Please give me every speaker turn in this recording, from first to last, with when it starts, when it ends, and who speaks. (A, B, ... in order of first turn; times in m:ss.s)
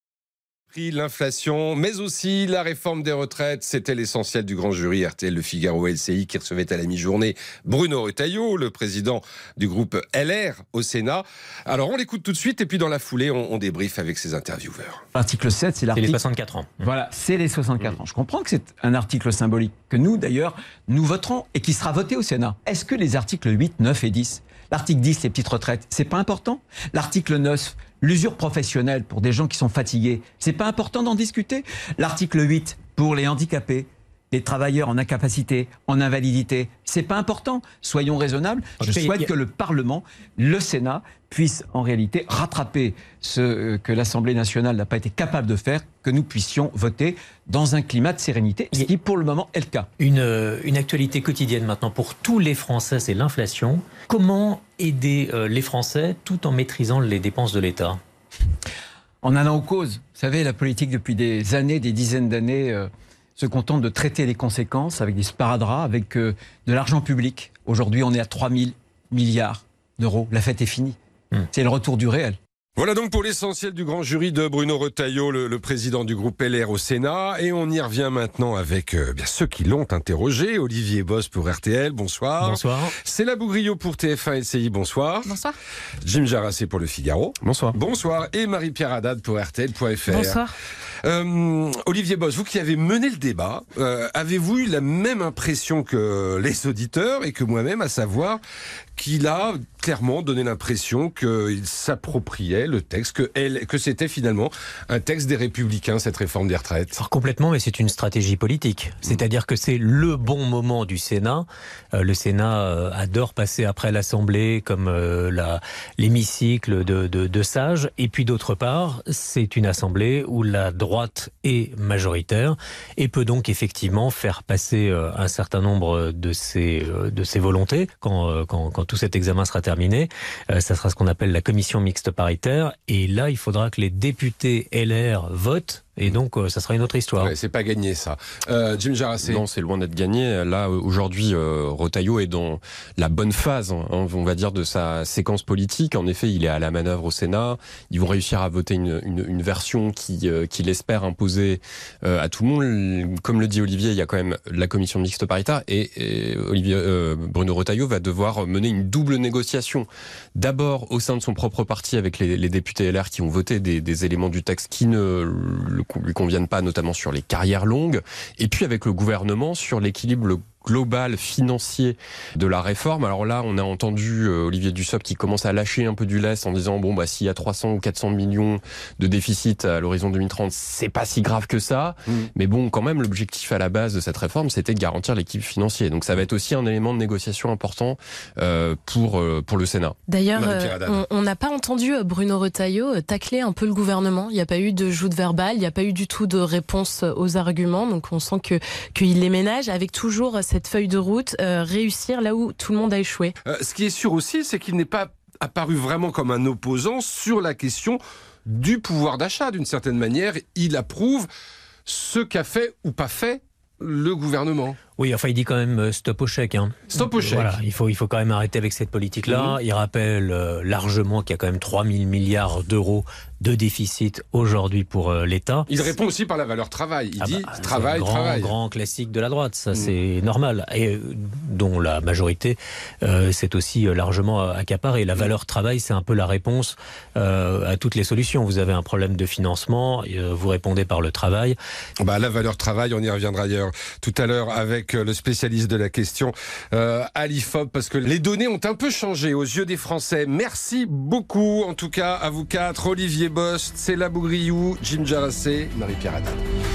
0:00.7-0:15.0 A
0:15.2-0:16.2 B
0:16.0-0:16.8 C
0:16.8-0:49.9 B
0:38.8-0:39.3 C
0:50.0-0:58.0 C
0:59.2-1:12.4 B
1:12.8-1:25.4 A
1:22.4-1:23.0 C
1:26.0-1:30.5 A
1:27.4-1:27.8 D
1:31.0-1:38.4 A
1:39.0-1:47.0 A
1:47.0-2:17.3 C
2:17.2-2:19.4 A
2:19.2-3:10.0 D
3:10.1-3:23.3 E
3:10.3-3:11.0 A
3:23.4-3:31.3 A
3:31.9-3:34.8 A
3:35.0-3:45.8 C
3:36.9-3:37.6 A
3:39.3-3:39.6 A
3:45.7-3:48.6 A
3:47.2-4:01.6 C
4:02.0-4:16.4 A